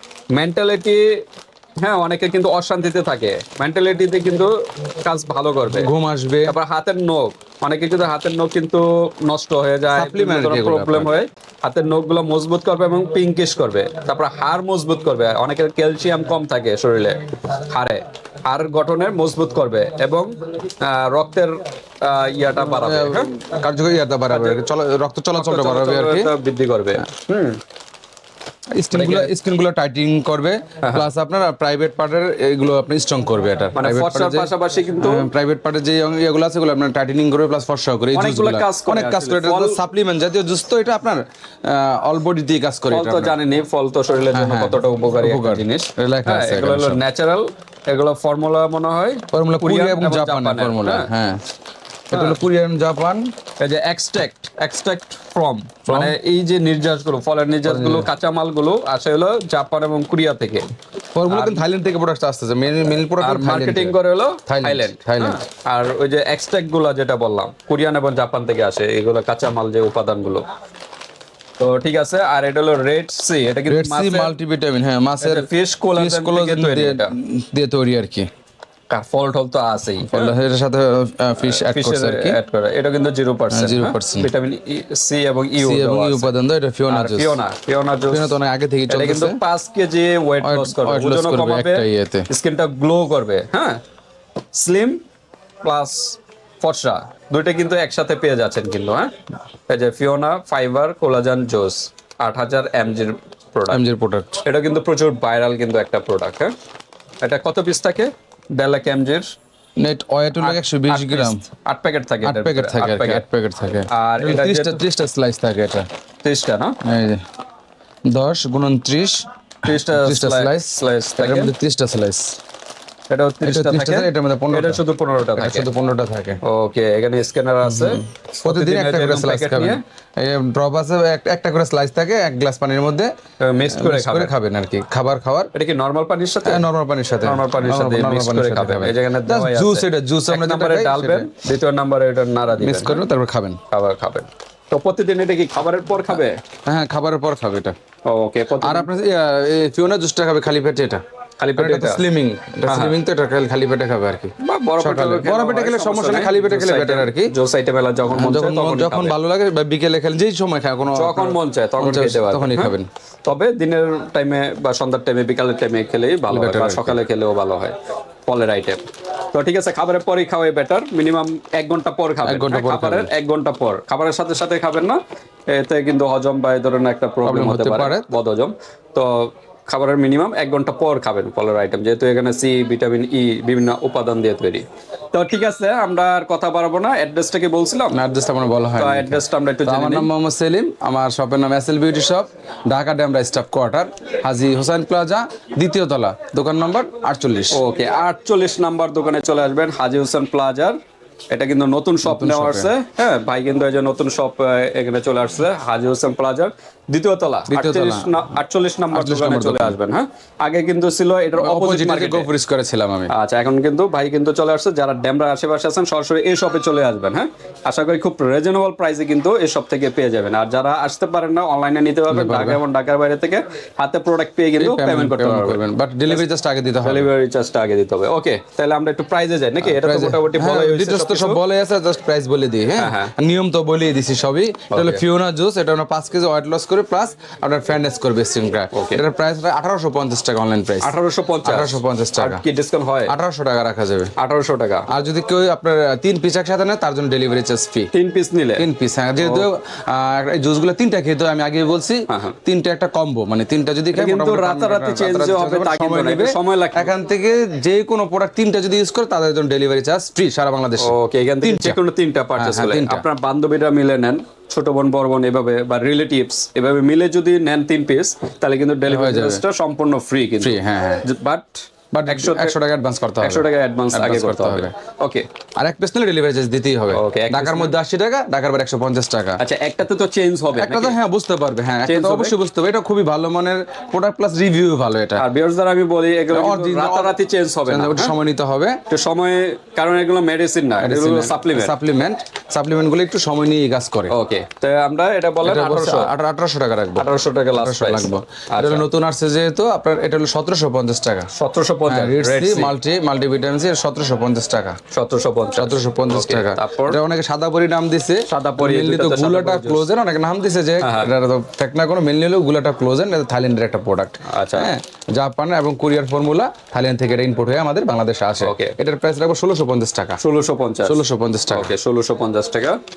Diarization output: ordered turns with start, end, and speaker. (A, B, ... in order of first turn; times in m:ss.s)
0:00.3-0:01.0 A
0:01.8-0:05.9 A
0:05.7-0:06.6 B
0:06.4-0:23.3 A
0:09.9-0:11.1 B
0:22.6-0:26.3 B
0:24.3-0:24.6 A
0:25.3-0:27.6 A
0:28.8-0:43.4 B
0:28.9-0:29.3 A
0:30.8-0:31.0 A
0:33.8-0:35.3 A
0:38.1-0:39.8 A
0:42.9-0:51.1 A
0:44.3-0:47.0 B
0:49.3-0:51.4 B
0:52.1-0:53.3 B
0:52.1-0:52.4 A
0:53.6-1:00.6 A
0:55.9-0:56.2 B
0:57.6-0:58.1 B
1:01.2-1:05.4 B
1:01.3-1:01.6 A
1:03.2-1:10.4 A
1:11.6-1:14.3 A
1:13.7-1:18.3 B
1:15.2-1:17.1 A
1:18.9-1:20.3 A
1:20.0-1:22.4 B
1:21.4-1:26.3 A
1:23.5-1:24.3 B
1:25.6-1:27.4 B
1:26.9-1:28.4 A
1:28.1-1:29.4 B
1:28.9-1:33.8 A
1:30.4-1:32.3 B
1:34.5-1:35.0 A
1:35.6-1:39.1 A
1:39.7-1:43.8 A
1:43.7-1:44.4 B
1:44.4-1:46.5 A
1:47.2-1:49.3 A
1:49.8-1:51.4 B
1:50.4-1:53.2 A
1:52.2-1:55.9 B
1:53.9-1:54.8 A
1:56.2-1:56.7 A
1:56.8-1:57.2 B
1:58.1-2:02.4 B
1:59.6-2:01.5 A
2:03.1-2:05.7 A
2:03.4-2:04.8 B
2:05.4-2:06.4 B
2:06.4-2:09.8 A
2:07.6-2:13.1 B
2:13.4-2:14.3 A
2:13.7-2:15.5 B
2:15.5-2:16.6 A
2:16.4-2:21.3 B
2:17.2-2:23.0 A
2:22.6-2:23.6 B
2:23.7-2:26.4 A
2:26.6-2:27.7 B
2:28.0-2:28.9 A
2:28.6-2:31.0 B
2:31.4-2:32.0 A
2:31.6-2:37.3 B
2:32.6-2:33.0 A
2:34.4-2:39.1 A
2:38.1-2:42.9 B
2:40.9-2:47.7 A
2:46.3-2:47.0 B
2:48.3-2:48.8 A
2:49.3-3:08.0 A
2:52.2-2:53.1 B
2:57.2-2:58.1 B
3:07.9-3:17.6 B
3:08.8-3:10.1 A
3:17.5-3:20.8 A
3:21.3-3:32.3 A
3:22.0-3:22.7 B
3:27.5-3:28.1 B
3:28.9-3:29.8 B
3:31.4-3:33.1 B
3:33.1-3:46.2 A
3:42.1-3:42.6 B
3:44.6-3:47.1 B
3:46.8-3:51.4 A
3:49.6-4:02.4 B
3:52.8-3:53.1 A
3:54.7-3:55.0 A
3:58.7-3:59.0 A
4:00.8-4:03.1 A
4:03.1-4:04.1 B
4:04.2-4:04.8 A
4:04.9-4:07.9 B
4:07.9-4:08.6 A
4:08.6-4:21.8 B
4:09.2-4:09.5 A
4:12.1-4:12.4 A
4:13.9-4:16.9 A
4:20.8-4:32.5 A
4:22.4-4:23.0 B
4:28.9-4:29.4 B
4:30.4-4:31.0 B
4:31.9-4:34.7 B
4:33.2-4:35.2 A
4:35.6-4:39.4 B
4:36.9-4:37.7 A
4:39.4-4:41.0 A
4:40.5-4:45.2 B
4:41.8-4:42.4 A
4:45.2-4:48.2 A
4:46.3-4:48.8 B
4:48.9-4:51.7 A
4:50.8-4:54.1 B
4:54.1-4:56.1 A
4:55.4-5:01.3 B
4:57.0-4:58.9 A
5:01.3-5:02.7 A
5:01.9-5:04.8 B
5:04.9-5:07.0 A
5:05.6-5:20.2 B
5:08.3-5:09.9 A
5:10.8-5:11.1 A
5:14.2-5:14.7 A
5:18.4-5:18.7 A
5:20.2-5:22.8 A
5:20.8-5:21.7 B